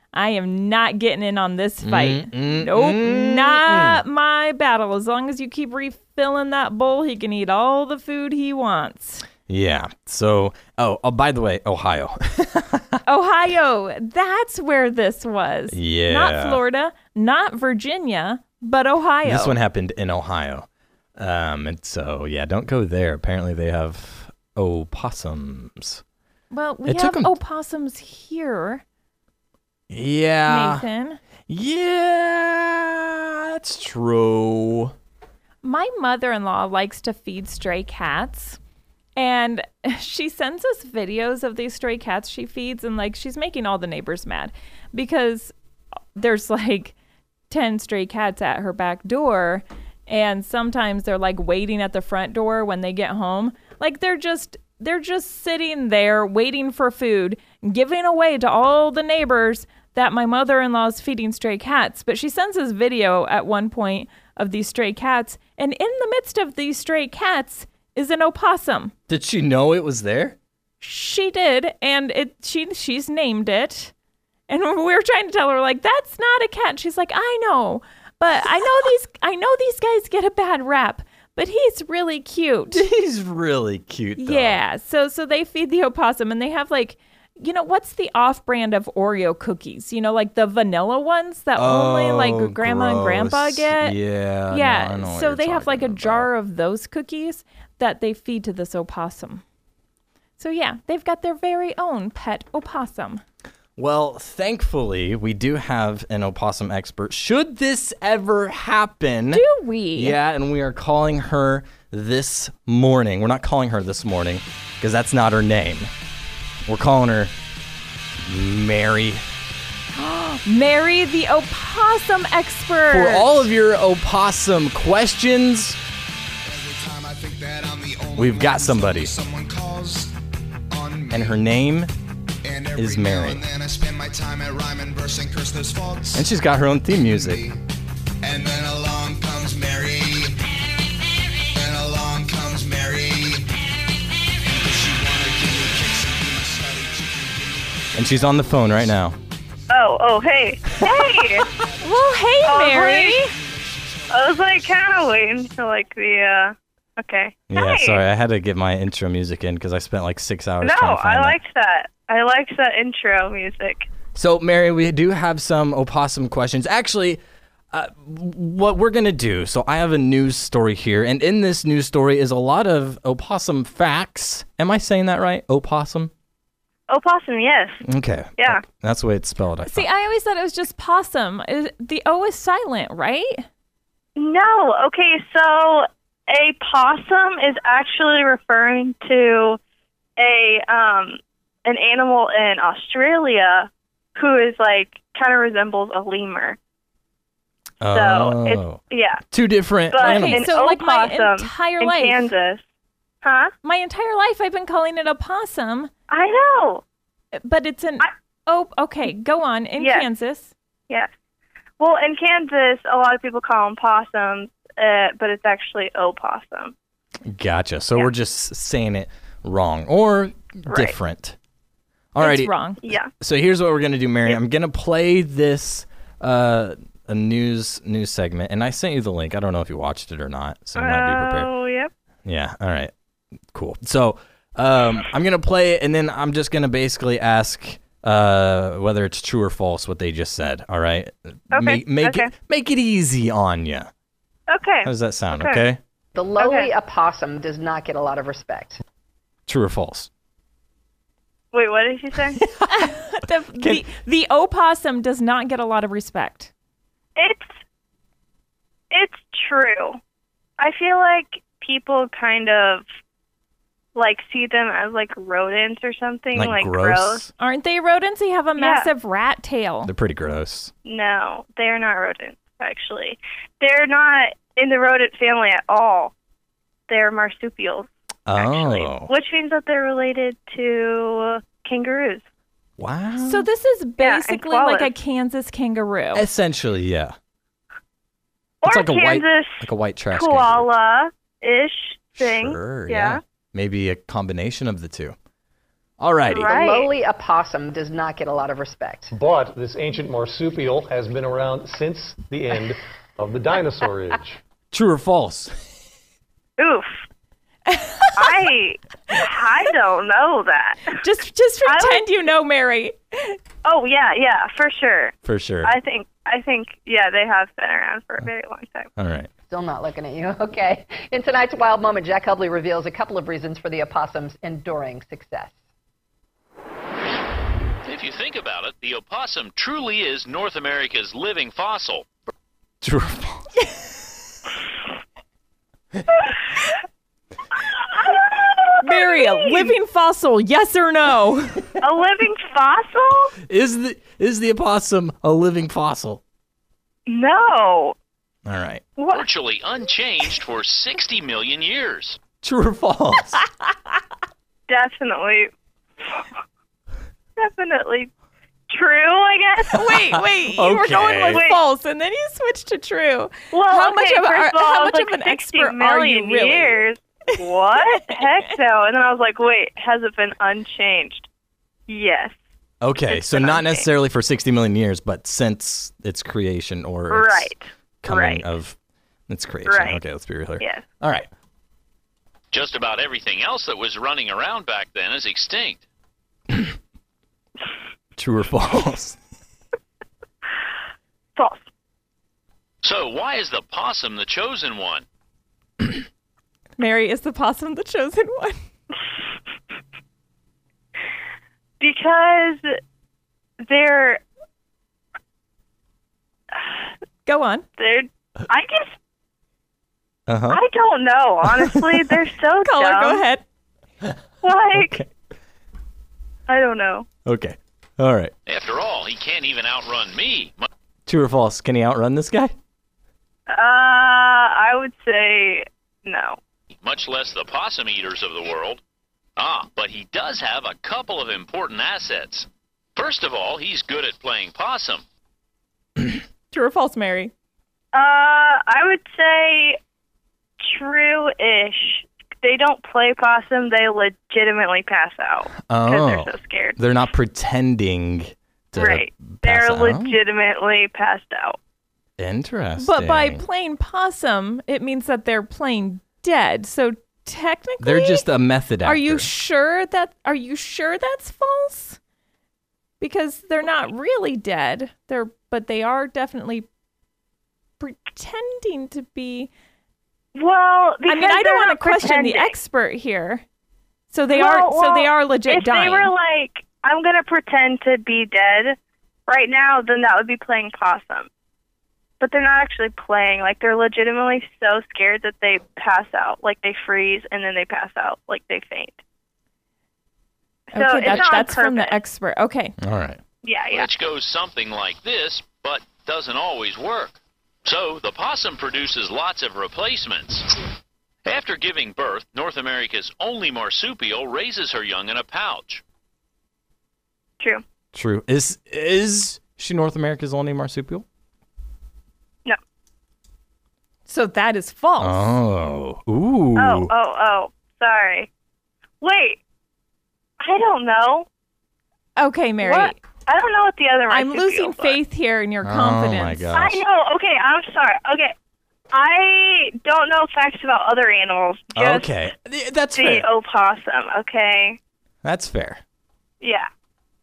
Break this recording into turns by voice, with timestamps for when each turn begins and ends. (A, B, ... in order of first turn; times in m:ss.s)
0:00.1-0:09.3 A
0:01.8-0:04.0 B
0:09.5-0:13.0 B
0:13.0-0:19.6 A
0:15.7-0:16.6 B
0:19.2-0:26.0 B
0:26.5-0:28.8 A
0:26.8-0:27.4 B
0:29.9-0:30.8 B
0:30.5-0:31.2 A
0:31.5-0:34.9 B
0:35.6-0:38.6 A
0:39.2-0:45.5 A
0:46.2-0:47.0 A
0:47.5-1:08.9 A
1:09.1-1:10.4 B
1:10.8-1:13.9 A
1:14.5-1:22.8 A
1:22.7-1:24.6 B
1:24.2-1:34.0 A
1:31.6-1:36.3 B
1:34.5-1:39.4 A
1:40.4-1:43.2 A
1:43.8-1:49.4 B
1:49.3-1:50.2 A
1:50.0-1:55.9 B
1:56.7-1:57.3 B
1:58.2-1:59.2 B
1:59.9-2:03.4 A
2:02.9-2:05.8 B
2:06.4-2:10.1 C
2:08.2-2:09.1 B
2:10.7-2:11.4 C
2:11.1-2:11.9 B
2:12.4-2:16.2 C
2:12.8-2:13.4 B
2:16.1-2:17.4 B
2:16.9-2:17.6 C
2:18.2-2:20.4 C
2:21.5-2:23.5 C
2:24.4-2:28.7 C
2:28.0-2:29.2 B
2:29.7-2:31.5 D
2:31.4-2:32.0 C
2:31.8-2:33.3 A
2:32.4-2:33.2 D
2:33.3-2:34.6 C
2:34.1-2:38.0 D
2:37.5-2:41.4 B
2:40.6-2:43.9 D
2:44.2-2:47.2 B
2:47.7-2:56.1 B
2:56.9-2:57.8 D
2:57.8-2:59.9 B
2:58.4-2:58.6 D
2:59.6-3:03.5 A
3:04.2-3:09.6 D
3:10.2-3:16.6 D
3:17.8-3:20.5 B
3:17.9-3:19.2 D
3:19.9-3:22.6 D
3:20.0-3:22.3 A
3:23.2-3:23.5 D
3:23.6-3:25.9 A
3:26.1-3:26.8 D
3:27.4-3:30.5 A
3:29.8-3:30.1 D
3:31.8-3:36.7 D
3:37.3-3:41.4 B
3:40.7-3:41.0 D
3:42.1-3:42.5 B
3:42.2-3:42.8 A
3:42.8-3:43.1 D
3:43.1-3:51.5 B
3:50.8-3:51.9 D
3:52.2-3:52.9 B
3:53.5-4:03.9 B
4:01.5-4:02.3 D
4:04.5-4:05.6 D
4:04.8-4:05.8 B
4:06.2-4:08.8 E
4:06.4-4:06.7 D
4:09.5-4:10.1 B
4:11.5-4:12.4 D
4:12.4-4:13.0 B
4:12.7-4:16.5 A
4:13.6-4:13.8 B
4:17.2-4:17.6 D
4:18.9-4:20.0 D
4:20.6-4:22.8 D
4:24.0-4:27.3 D
4:26.3-4:27.3 B
4:27.4-4:29.9 A
4:28.6-4:28.9 D
4:29.8-4:30.7 B
4:30.8-4:36.1 D
4:36.9-4:42.2 D
4:38.3-4:39.1 B
4:42.8-4:43.5 B
4:43.2-4:46.2 A
4:44.0-4:44.9 D
4:46.1-4:47.2 B
4:48.6-4:53.2 D
4:48.6-4:50.7 B
4:52.2-4:55.2 B
4:56.0-4:56.6 B
4:56.3-4:56.9 D
4:56.4-4:59.1 E
4:59.1-5:04.4 F
5:04.7-5:05.5 B
5:06.6-5:06.9 D
5:07.7-5:08.4 A
5:08.2-5:11.0 D
5:11.0-5:13.4 A
5:11.6-5:12.0 D
5:13.6-5:18.9 D
5:15.2-5:15.7 B
5:19.0-5:19.3 B
5:19.5-5:25.6 E
5:27.8-5:32.1 G
5:32.8-5:33.4 B
5:37.9-5:39.8 D
5:38.8-5:41.6 A
5:41.8-5:43.3 D
5:43.4-5:46.2 B
5:47.1-5:48.0 D
5:48.5-5:48.9 B
5:49.0-5:49.3 D
5:49.1-5:52.2 G
5:52.4-5:53.4 B
5:54.7-5:55.5 D
5:57.4-5:58.1 D
5:58.7-5:59.9 D
5:59.7-6:06.8 A
5:59.9-6:01.4 B
6:01.0-6:01.6 D
6:03.5-6:11.3 D
6:07.8-6:08.4 A
6:11.9-6:12.4 D
6:12.8-6:18.8 B
6:13.1-6:13.9 D
6:17.1-6:18.5 D
6:19.3-6:21.3 B
6:19.7-6:20.0 D
6:20.6-6:20.8 D
6:22.5-6:25.8 G
6:28.2-6:29.2 B
6:31.4-6:31.7 D
6:32.8-6:35.1 G
6:36.8-6:38.6 A
6:41.8-6:42.8 D
6:43.6-6:44.2 D
6:46.5-6:46.8 D
6:47.3-6:47.7 A
6:47.8-6:49.0 D
6:50.3-6:50.6 B
6:50.5-6:53.2 D
6:51.5-6:52.1 B
6:52.6-6:53.4 A
6:54.4-6:55.0 D
6:54.7-6:55.1 B
6:56.5-6:57.1 D
6:57.2-6:58.3 B
6:58.5-7:00.7 G
7:01.1-7:02.6 B
7:03.5-7:06.4 D
7:06.7-7:08.8 G
7:09.4-7:15.0 G
7:16.5-7:17.3 A
7:17.9-7:19.8 D
7:20.6-7:26.8 D
7:25.6-7:30.2 B
7:28.8-7:31.6 D
7:32.2-7:33.4 B
7:32.8-7:38.2 A
7:37.8-7:39.3 B
7:38.8-7:42.0 A
7:43.0-7:46.7 A
7:47.8-7:49.5 A
7:50.4-7:52.6 D
7:51.1-7:53.4 A
7:54.1-7:56.1 A
7:54.3-8:01.3 D
8:02.2-8:09.0 D
8:10.7-8:12.0 D
8:10.7-8:12.8 A
8:12.8-8:13.2 B
8:13.4-8:13.9 D
8:13.7-8:20.5 G
8:21.2-8:25.8 G
8:27.9-8:31.1 B
8:34.1-8:35.3 A
8:35.0-8:36.9 B
8:36.6-8:38.3 D
8:39.0-8:39.4 D
8:40.4-8:41.3 D
8:42.2-8:43.0 A
8:42.6-8:45.0 D
8:44.1-8:46.5 A
8:45.6-8:46.8 B
8:46.5-8:48.4 D
8:48.9-8:52.1 D
8:51.8-8:53.3 B
8:53.0-8:54.8 D
8:55.2-8:55.8 B
8:56.4-8:56.7 D